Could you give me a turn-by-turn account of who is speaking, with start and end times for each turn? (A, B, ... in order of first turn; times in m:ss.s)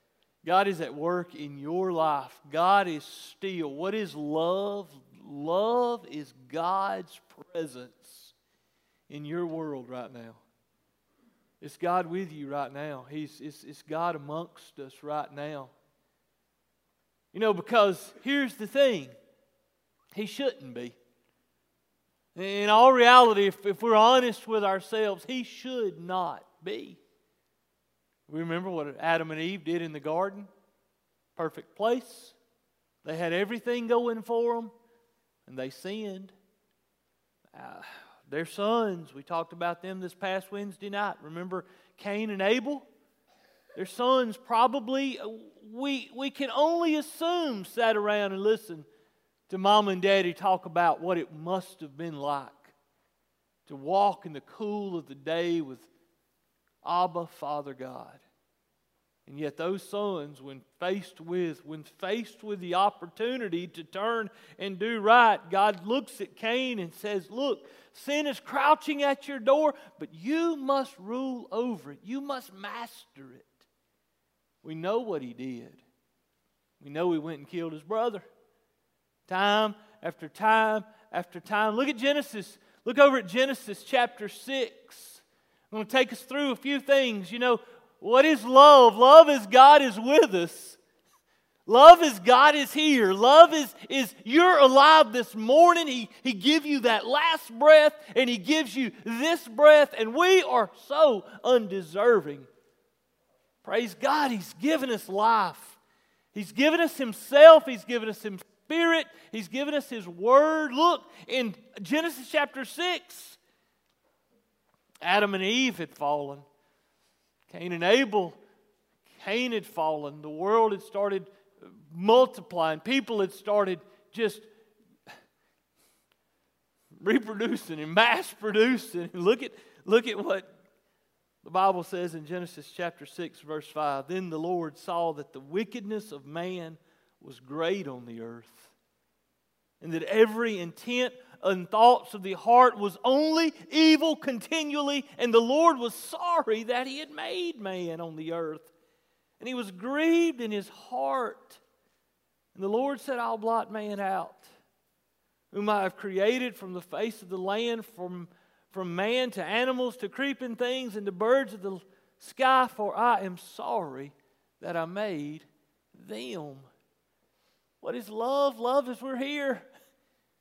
0:00.4-0:08.3 A
0:09.1-0:10.4 A
0:11.6-0:15.7 A
0:17.3-0:19.1 A
0:20.1-0:21.0 A
0:22.3-0:27.0 A
0:28.3-0:30.5 A
0:31.4-0:32.4 A
0:33.0-0:34.7 A
0:35.4-0:36.3 A
0:37.5-0:42.8 A
0:43.7-0:48.8 A
0:49.5-0:52.7 A
0:53.7-0:55.9 A
0:56.8-0:58.2 A
0:59.2-1:13.7 A
1:14.6-1:15.8 A
1:16.8-1:18.3 A
1:19.3-1:30.8 A
1:31.7-1:42.5 A
1:43.6-1:45.8 A
1:46.3-1:53.4 A
1:55.0-1:56.4 A
1:57.5-1:58.4 A
1:59.1-2:04.5 A
2:07.0-2:10.5 A
2:11.4-2:18.7 A
2:19.8-2:28.7 A
2:29.4-2:31.6 A
2:32.5-2:34.5 A
2:35.5-2:46.7 A
2:47.8-2:49.7 A